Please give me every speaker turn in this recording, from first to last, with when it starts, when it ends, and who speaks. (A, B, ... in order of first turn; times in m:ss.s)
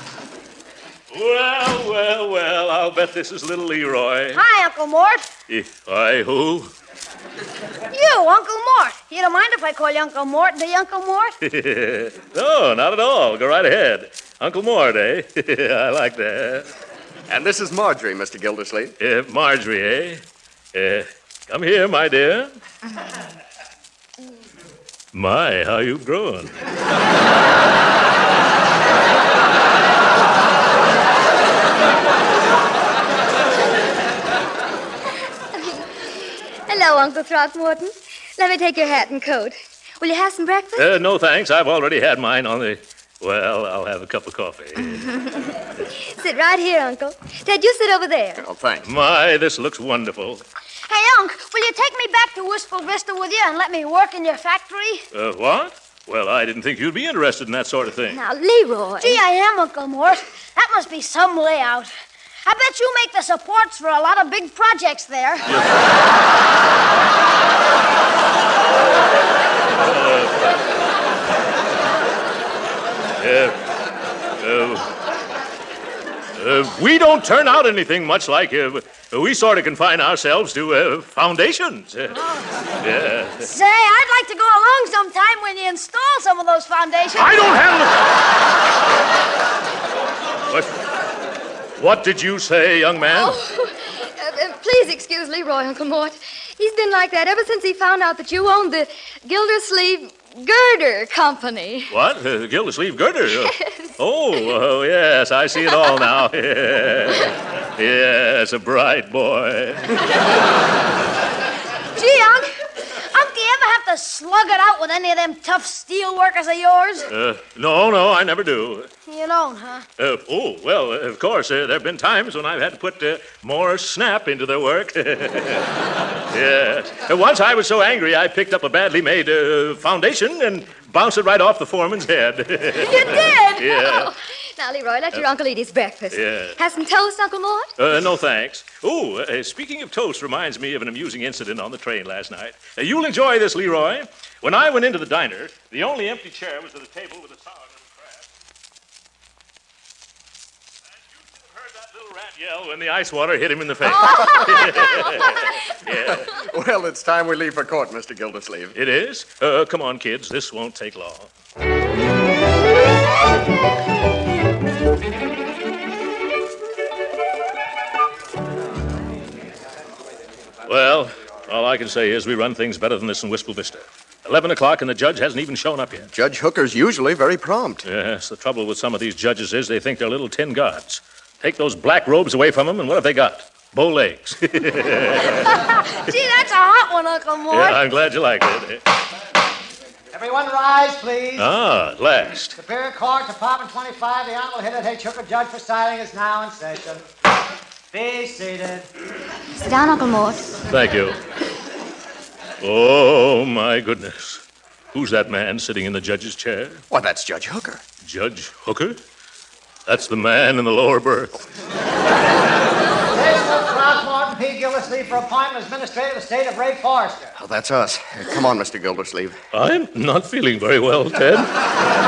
0:01.1-0:04.4 A
0:04.3-0:05.3 B
0:05.5-0:06.7 A
0:07.9-0:11.3 B
0:11.4-0:16.7 A
0:17.3-0:19.0 C
0:19.0-0:20.2 A
0:20.7-0:22.6 A
0:25.1-0:26.5 A
0:36.7-0:40.9 D
0:40.8-0:45.1 A
0:45.2-0:48.4 D
0:48.4-0:48.9 C
0:48.8-0:50.4 A
0:50.9-0:55.1 B
0:55.1-0:58.2 A
0:58.1-0:59.2 D
0:59.0-1:01.9 B
1:02.5-1:05.4 B
1:05.5-1:05.8 A
1:09.8-1:10.6 A
1:13.2-1:13.6 A
1:14.4-1:14.9 A
1:16.4-1:22.2 A
1:22.2-1:22.5 B
1:22.8-1:23.5 A
1:23.4-1:27.5 B
1:27.2-1:28.1 A
1:30.5-1:30.8 A
1:31.8-1:33.4 A
1:33.1-1:41.9 D
1:41.9-1:49.9 A
1:43.5-1:43.8 D
1:52.0-1:52.5 B
1:53.1-1:57.1 B
1:57.1-1:58.9 A
1:59.0-1:59.8 B
2:00.0-2:05.7 A
2:06.3-2:14.1 A
2:12.7-2:17.7 D
2:16.1-2:16.6 A
2:17.8-2:28.2 A
2:31.3-2:36.3 A
2:35.9-2:38.8 C
2:38.8-2:41.3 A
2:50.7-2:56.1 A
2:56.1-2:57.9 C
2:57.8-3:05.5 A
3:05.5-3:07.8 B
3:07.5-3:08.8 A
3:10.1-3:11.5 E
3:11.4-3:12.6 A
3:12.6-3:17.0 E
3:17.9-3:18.9 E
3:19.5-3:20.6 D
3:20.7-3:21.2 A
3:22.6-3:24.4 A
3:24.9-3:26.8 A
3:26.9-3:27.8 C
3:28.0-3:29.0 A
3:29.9-3:31.4 A
3:33.1-3:37.3 E
3:37.4-3:39.4 C
3:39.5-3:41.5 A